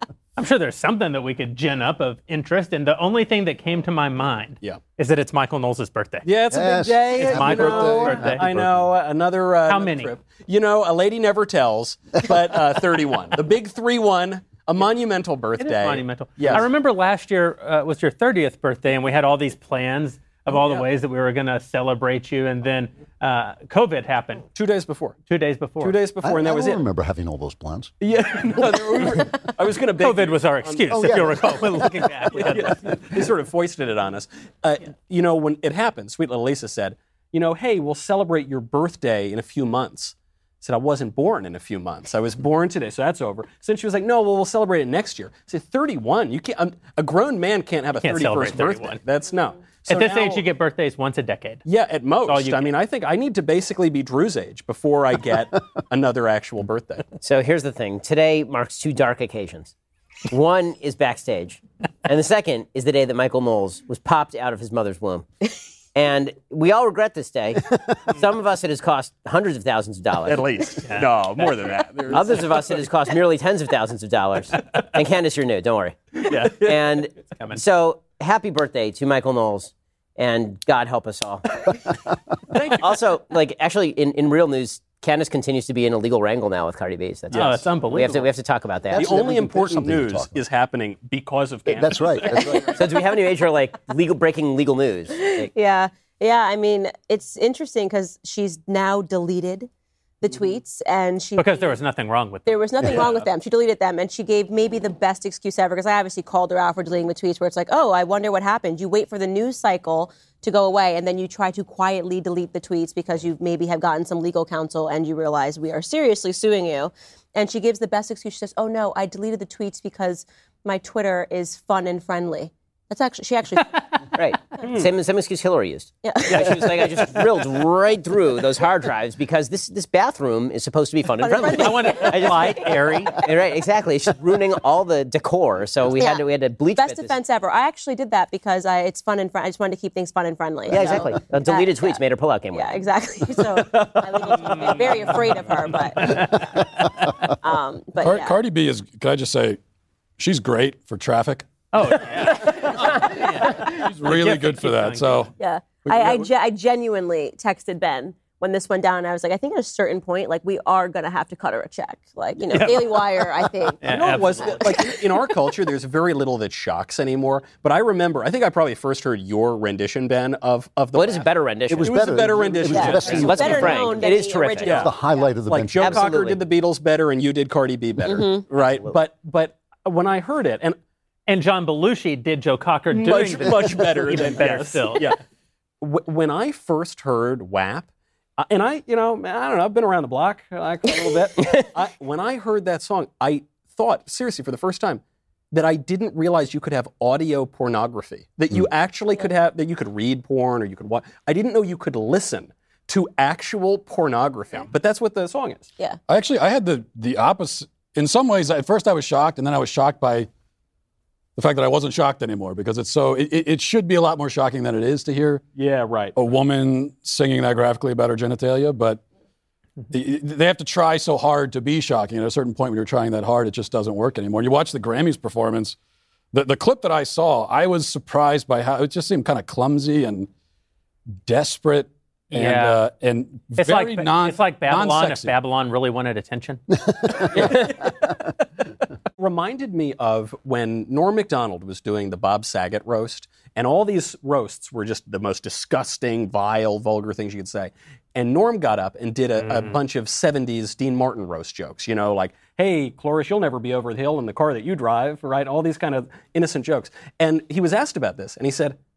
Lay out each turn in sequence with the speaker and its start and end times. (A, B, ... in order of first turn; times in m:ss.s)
0:00.4-0:06.3 A
0:06.2-0:16.6 B
0:06.5-0:08.9 C
0:07.3-0:08.5 A
0:09.7-0:10.1 A
0:15.6-0:24.5 A
0:24.6-0:25.2 B
0:25.3-0:26.0 A
0:25.8-0:26.8 B
0:26.2-0:27.9 C
0:28.0-0:31.4 B
0:30.0-0:33.0 A
0:30.9-0:32.0 C
0:32.3-0:50.4 B
0:48.0-0:49.0 A
0:49.9-0:51.6 A
0:51.6-0:57.1 B
0:52.3-0:52.7 A
0:57.2-0:59.7 D
1:00.3-1:05.3 D
1:05.9-1:10.5 D
1:10.3-1:12.9 B
1:10.8-1:11.7 A
1:12.1-1:21.7 D
1:16.2-1:16.8 B
1:22.5-1:23.0 B
1:22.7-1:29.1 D
1:27.3-1:28.2 B
1:27.3-1:28.2 A
1:28.9-1:30.4 C
1:29.0-1:32.8 B
1:31.7-1:32.7 C
1:32.6-1:35.5 D
1:35.2-1:39.7 E
1:40.2-1:41.7 E
1:41.4-1:43.0 A
1:42.5-2:04.6 E
2:04.1-2:17.2 D
2:06.0-2:07.2 E
2:11.2-2:12.5 E
2:11.5-2:13.2 A
2:15.9-2:22.0 E
2:20.7-2:22.8 D
2:22.5-2:26.7 E
2:23.8-2:25.3 B
2:27.3-2:28.4 E
2:28.0-2:29.6 F
2:30.2-2:35.3 F
2:31.7-2:35.3 A
2:35.4-2:45.0 E
2:35.9-2:36.2 F
2:42.5-2:43.2 B
2:43.8-2:44.9 A
2:43.8-2:51.3 B
2:51.0-2:52.1 D
2:51.7-2:53.8 C
2:51.8-2:54.1 B
2:52.7-2:54.9 E
2:53.0-2:54.9 D
2:54.6-2:54.9 B
2:54.6-2:56.1 C
2:55.5-3:00.8 B
2:55.8-2:56.4 D
2:58.1-2:58.4 E
3:01.3-3:05.1 A
3:02.9-3:05.2 B
3:05.8-3:07.9 B
3:08.4-3:15.0 B
3:15.5-3:25.7 B
3:26.1-3:30.3 F
3:31.4-3:35.4 F
3:35.6-3:36.2 B
3:36.2-3:39.0 F
3:39.9-3:45.8 F
3:46.3-3:50.3 F
3:51.3-3:55.3 F
3:52.3-3:52.8 A
3:53.6-3:56.6 A
3:57.0-3:57.3 C
3:57.4-3:57.9 B
3:59.2-4:18.8 B
4:09.4-4:09.8 A